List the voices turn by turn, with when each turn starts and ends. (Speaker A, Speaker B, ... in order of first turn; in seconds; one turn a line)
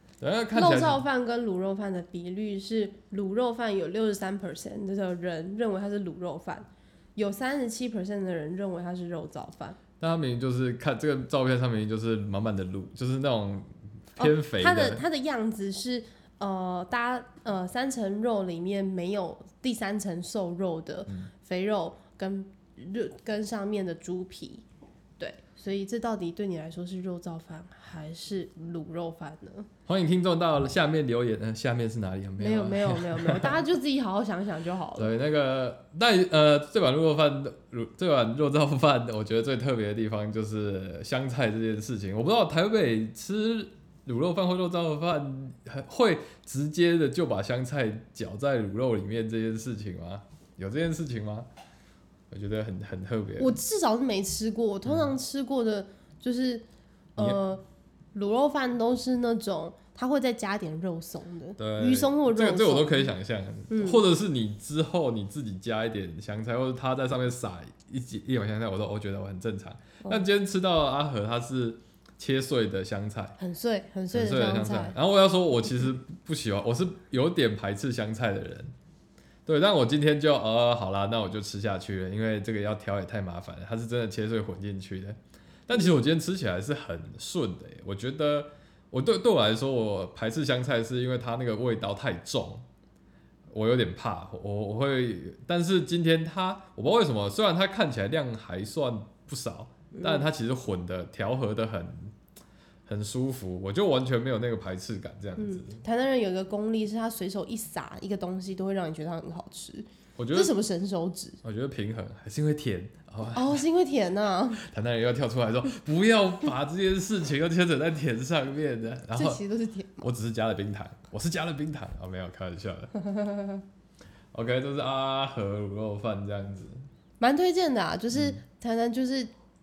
Speaker A: 0.2-1.0
Speaker B: 0.5-9.8
Speaker A: 10.0-15.0
Speaker B: 14.2-24.6
Speaker B: 25.2-29.7
Speaker A: 29.9-33.6
Speaker B: 32.4-35.1
Speaker A: 35.0-51.5
Speaker A: 52.3-53.6
Speaker B: 53.4-57.6
Speaker A: 54.9-55.1
Speaker B: 58.1-63.1
Speaker A: 61.6-73.4
Speaker B: 63.7-64.0
Speaker B: 73.4-75.0
Speaker A: 74.1-78.7
Speaker A: 79.5-92.6
Speaker A: 93.5-102.2
Speaker B: 99.9-100.3
Speaker A: 102.9-105.8
Speaker B: 105.4-111.4
Speaker A: 110.2-110.5
Speaker A: 111.4-113.6
Speaker B: 113.3-114.6
Speaker A: 114.5-119.4
Speaker B: 119.1-120.1
Speaker A: 120.0-122.9
Speaker B: 123.0-123.6
Speaker A: 124.3-126.9
Speaker B: 127.2-129.3
Speaker A: 128.1-128.4